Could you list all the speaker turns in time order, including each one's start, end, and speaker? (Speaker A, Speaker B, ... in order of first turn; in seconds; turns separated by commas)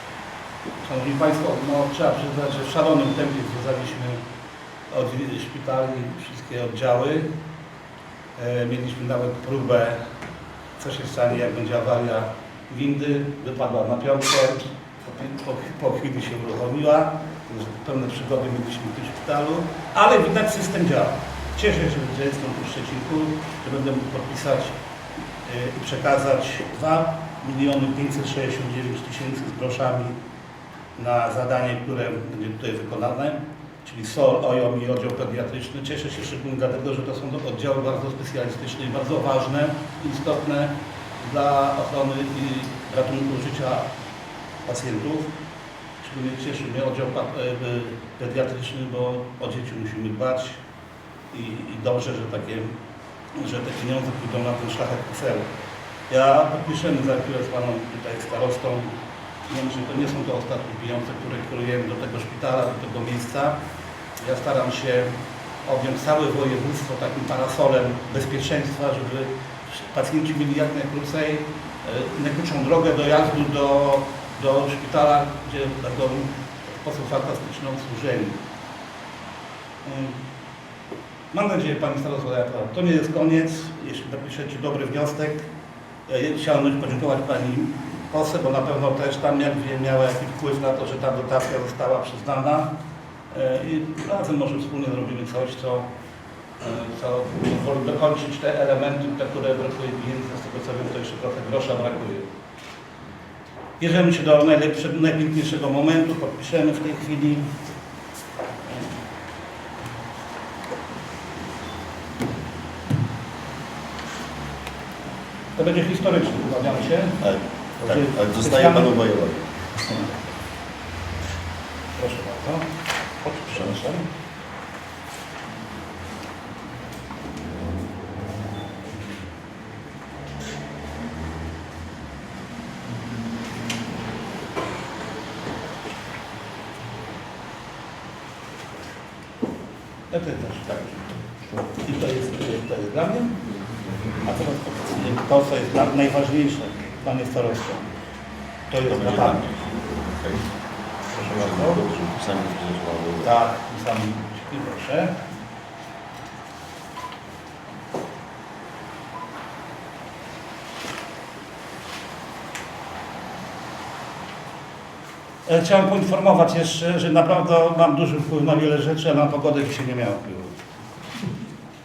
Speaker A: 0.8-4.2, Speaker A: 4.9-7.3, Speaker A: 8.3-10.0, Speaker A: 10.8-24.7, Speaker A: 25.4-30.1, Speaker A: 30.9-43.9, Speaker A: 44.6-45.3, Speaker A: 46.0-50.6, Speaker A: 51.3-52.7, Speaker A: 53.4-55.5, Speaker A: 56.1-58.9, Speaker A: 59.5-63.6, Speaker A: 64.2-65.1, Speaker A: 65.6-78.4, Speaker A: 79.8-80.2, Speaker A: 81.3-85.5, Speaker A: 86.1-92.7, Speaker A: 93.3-95.9, Speaker A: 96.6-102.3, Speaker A: 103.8-107.5, Speaker A: 115.5-117.2, Speaker B: 117.2-119.4, Speaker A: 117.8-118.9, Speaker A: 121.9-122.7, Speaker A: 123.2-124.1, Speaker A: 140.1-141.0, Speaker A: 141.6-143.4, Speaker A: 144.2-147.9, Speaker A: 148.7-149.4, Speaker B: 148.8-150.4, Speaker A: 151.1-151.8, Speaker B: 151.2-153.4, Speaker A: 153.2-155.1, Speaker A: 165.4-170.5